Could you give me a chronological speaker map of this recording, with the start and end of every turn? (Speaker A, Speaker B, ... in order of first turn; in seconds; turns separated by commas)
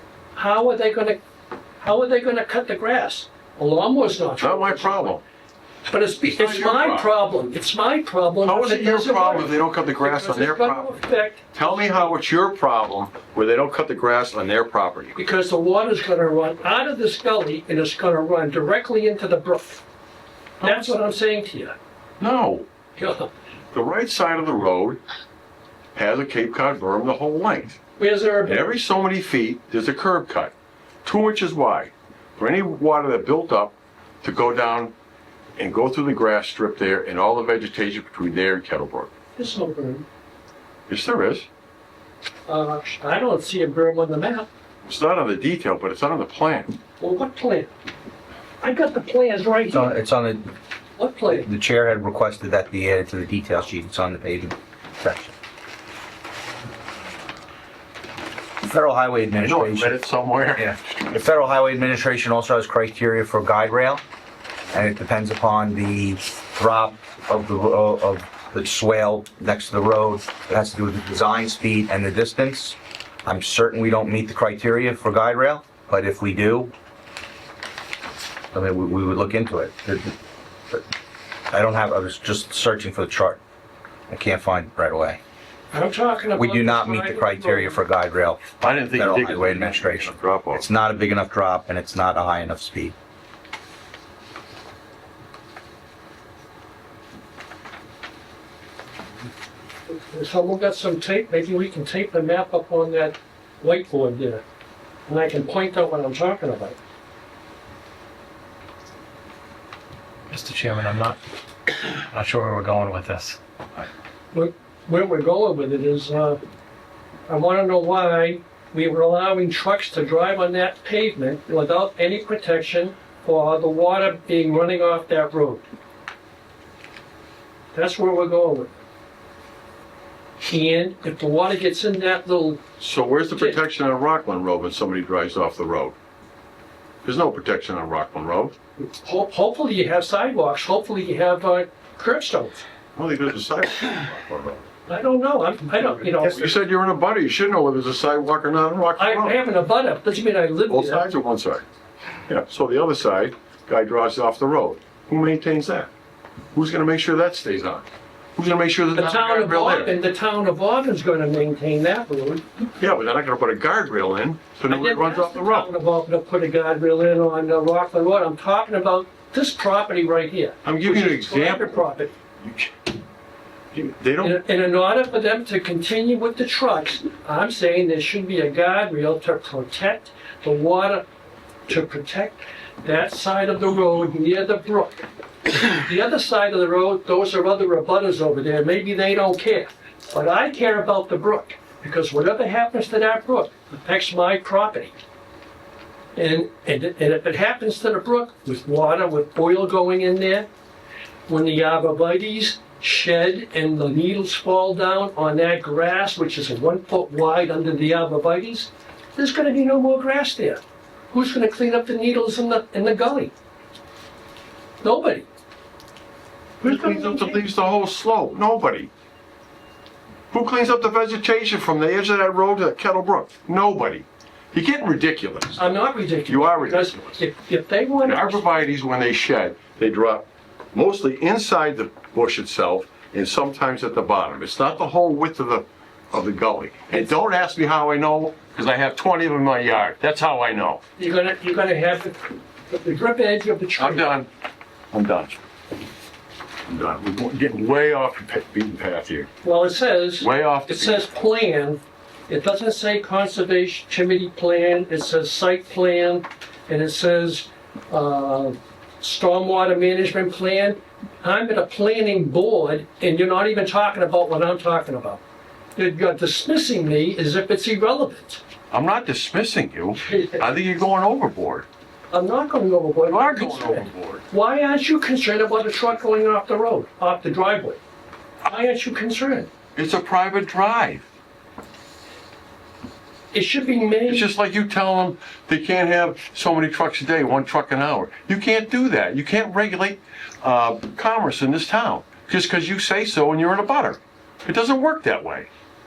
Speaker A: 0.3-1.2, Speaker A: 1.8-5.2, Speaker B: 4.4-5.2, Speaker A: 5.9-12.1, Speaker B: 6.3-7.1, Speaker B: 8.4-11.0, Speaker B: 11.5-15.2, Speaker A: 15.2-19.8, Speaker B: 20.6-21.0, Speaker A: 20.6-21.8, Speaker B: 22.2-22.7, Speaker A: 23.0-23.3, Speaker B: 23.7-25.0, Speaker B: 25.9-27.8, Speaker A: 28.0-28.7, Speaker B: 28.4-30.5, Speaker B: 31.1-34.9, Speaker B: 35.6-39.1, Speaker A: 39.4-40.1, Speaker B: 40.9-41.5, Speaker A: 42.5-44.5, Speaker B: 44.9-46.8, Speaker A: 47.0-47.7, Speaker A: 48.6-50.0, Speaker C: 49.7-50.5, Speaker A: 51.0-51.5, Speaker C: 51.4-55.3, Speaker C: 58.6-59.9, Speaker B: 59.4-60.8, Speaker C: 60.6-64.0, Speaker C: 64.7-76.7, Speaker C: 78.5-80.2, Speaker C: 81.5-83.4, Speaker C: 84.1-85.2, Speaker A: 85.7-87.8, Speaker C: 86.4-93.0, Speaker B: 88.6-90.7, Speaker A: 99.9-104.4, Speaker A: 105.1-106.8, Speaker D: 110.3-111.2, Speaker D: 111.9-113.4, Speaker A: 114.3-116.4, Speaker A: 117.3-125.6, Speaker A: 127.7-128.7, Speaker A: 130.4-132.6, Speaker B: 132.8-135.9, Speaker B: 137.1-138.6, Speaker A: 138.8-142.7, Speaker B: 143.0-144.7, Speaker A: 144.9-146.6, Speaker B: 146.2-149.4, Speaker A: 149.0-151.0, Speaker B: 150.7-151.6, Speaker B: 152.3-155.9, Speaker B: 156.6-159.9, Speaker A: 158.9-162.4, Speaker B: 162.8-165.7, Speaker A: 164.7-172.1, Speaker B: 170.6-172.7, Speaker B: 173.7-174.4, Speaker A: 174.2-181.1, Speaker A: 181.7-194.9, Speaker A: 196.2-200.5, Speaker A: 201.3-213.3, Speaker A: 214.8-215.3, Speaker B: 216.6-218.9, Speaker A: 216.6-217.4, Speaker B: 220.3-227.2, Speaker A: 225.6-228.5, Speaker B: 228.0-240.8, Speaker A: 241.0-244.2, Speaker B: 243.8-244.3, Speaker B: 244.9-245.4, Speaker B: 246.7-249.3, Speaker A: 249.4-265.2, Speaker B: 250.2-251.1, Speaker A: 265.8-268.4, Speaker B: 268.7-271.7, Speaker A: 270.1-270.4, Speaker A: 272.1-277.8, Speaker B: 273.1-274.2, Speaker A: 278.4-279.5, Speaker B: 279.8-281.0, Speaker A: 283.3-284.3, Speaker B: 284.1-295.5